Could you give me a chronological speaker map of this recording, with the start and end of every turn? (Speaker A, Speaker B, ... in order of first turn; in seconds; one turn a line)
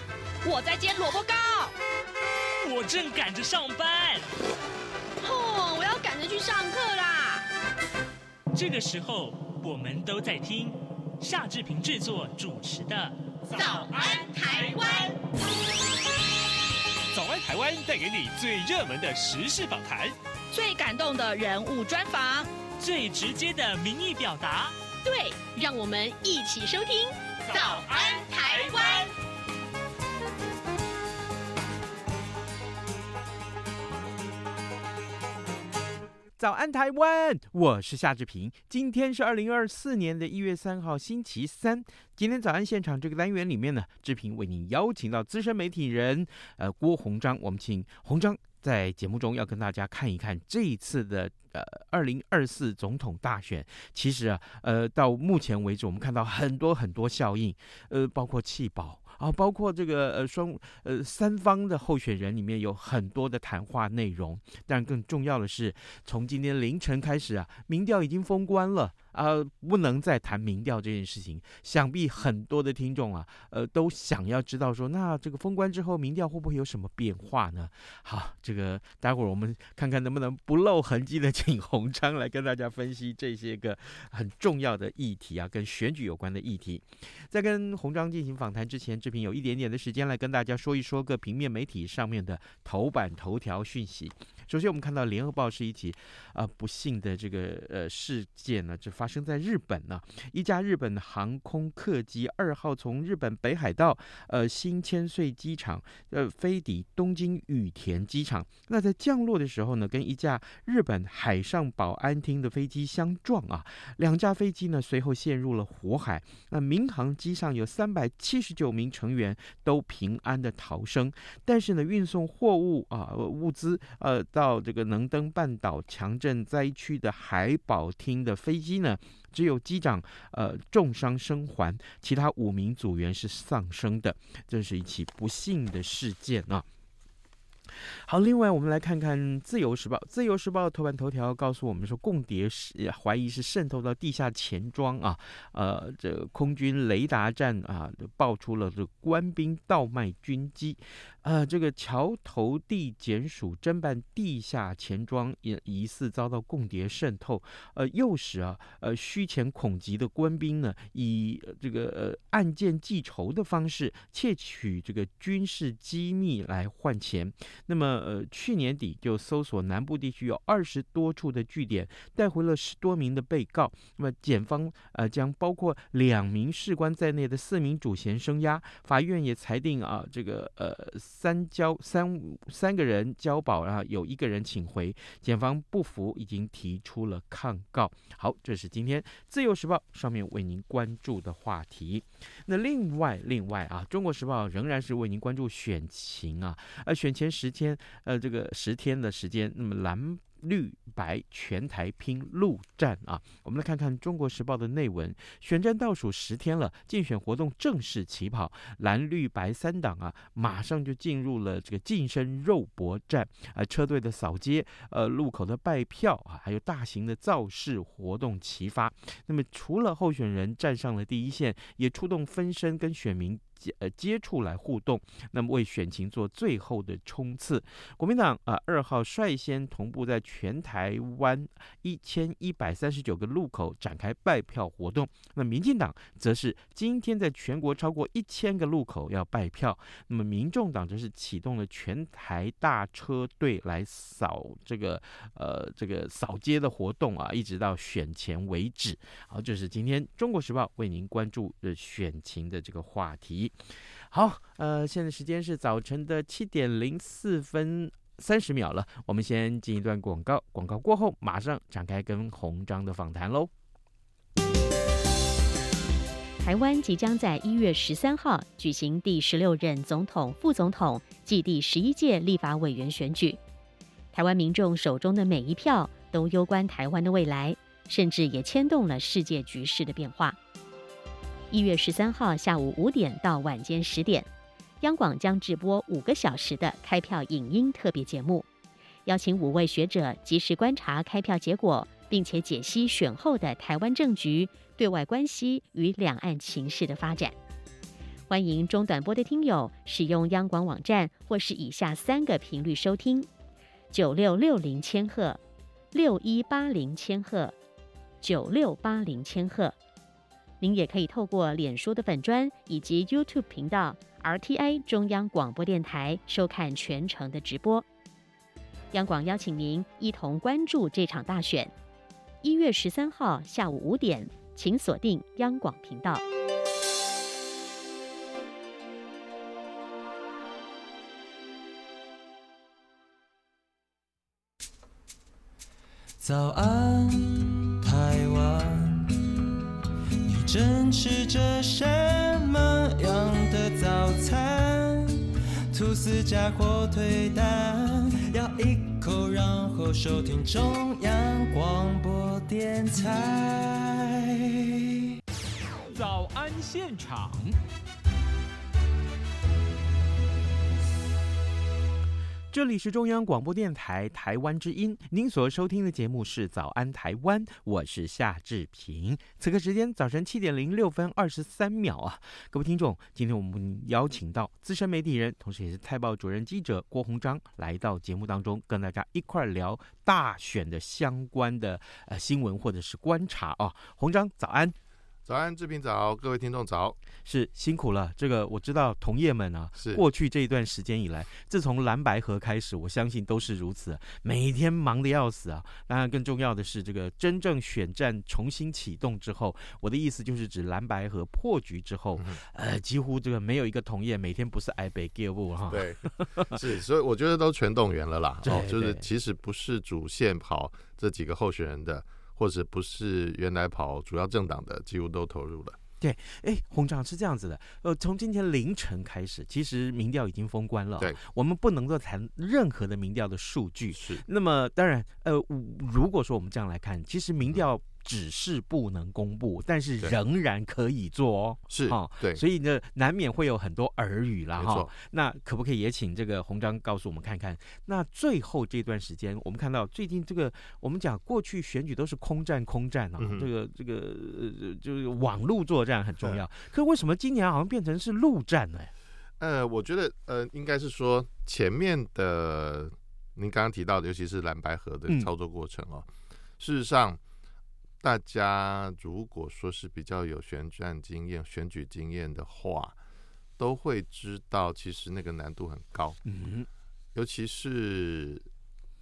Speaker A: 0.4-1.7
Speaker B: 2.6-4.3
Speaker A: 5.2-7.5
Speaker B: 8.5-13.2
Speaker A: 13.5-15.2
Speaker C: 17.1-20.1
Speaker A: 20.5-22.5
Speaker B: 22.8-24.8
Speaker A: 25.0-29.1
Speaker D: 36.4-136.7
Speaker D: 137.7-263.5
Speaker E: 266.4-273.4
Speaker E: 274.1-280.4
Speaker E: 281.5-284.3
Speaker E: 284.8-288.5
Speaker E: 289.1-297.3
Speaker E: 298.3-303.3
Speaker E: 303.9-305.4
Speaker E: 305.9-307.6
Speaker E: 308.2-309.8
Speaker E: 310.6-317.9
Speaker E: 318.9-321.7
Speaker E: 322.4-326.2
Speaker F: 336.2-339.2
Speaker F: 340.2-354.4
Speaker C: 355.9-357.6
Speaker D: 362.5-384.8
Speaker G: 385.2-387.0
Speaker D: 387.3-406.6
Speaker G: 389.8-390.0
Speaker G: 405.7-415.8
Speaker D: 408.4-409.1
Speaker D: 416.0-448.9
Speaker G: 423.9-424.2
Speaker G: 431.7-432.4
Speaker G: 434.6-434.9
Speaker G: 443.2-443.5
Speaker G: 449.4-456.1
Speaker G: 456.6-457.2
Speaker G: 458.0-463.0
Speaker G: 463.6-466.2
Speaker D: 466.2-466.7
Speaker G: 467.1-468.5